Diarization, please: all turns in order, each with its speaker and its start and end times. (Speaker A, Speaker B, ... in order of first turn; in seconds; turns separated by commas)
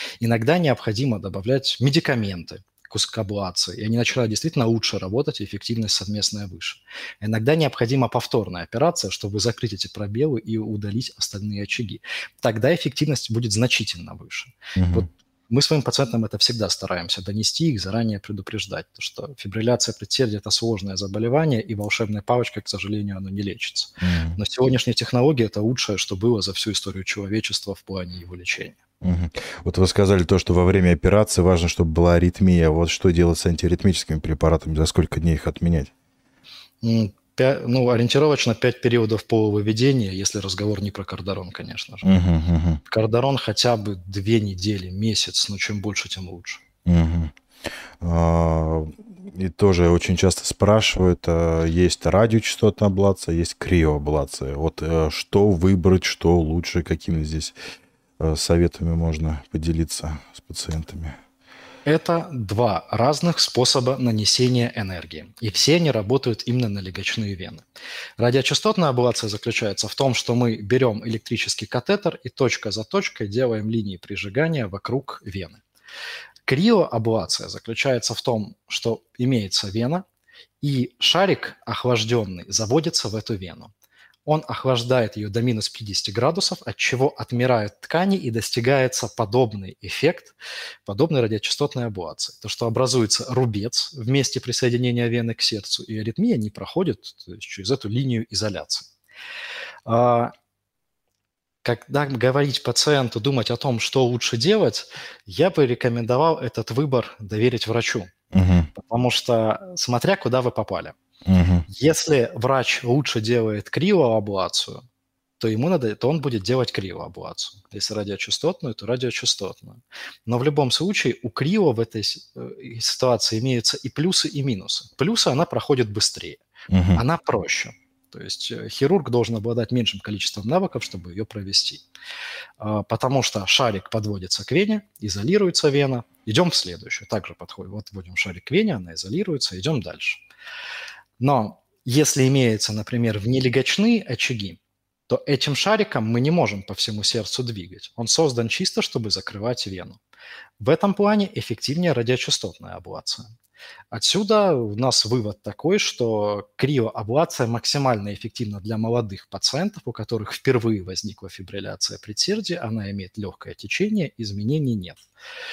Speaker A: 0.2-28.8, Speaker B: 14.7-15.1, Speaker B: 24.0-24.4, Speaker B: 29.0-35.9, Speaker A: 36.8-42.1, Speaker B: 42.0-42.8, Speaker A: 42.9-46.6, Speaker B: 46.9-47.3, Speaker B: 48.0-57.5, Speaker B: 58.2-61.2, Speaker A: 61.8-67.6, Speaker A: 68.2-75.6, Speaker A: 76.5-80.0, Speaker A: 80.6-83.7, Speaker A: 84.2-98.9, Speaker A: 99.8-100.3, Speaker A: 101.6-108.1, Speaker B: 108.3-108.7, Speaker A: 108.7-110.9, Speaker B: 111.2-111.7, Speaker A: 111.7-114.8, Speaker A: 115.4-126.4, Speaker B: 126.7-127.0, Speaker A: 126.9-131.8, Speaker A: 132.6-140.2, Speaker A: 141.2-150.0, Speaker A: 150.6-153.3, Speaker A: 153.9-165.0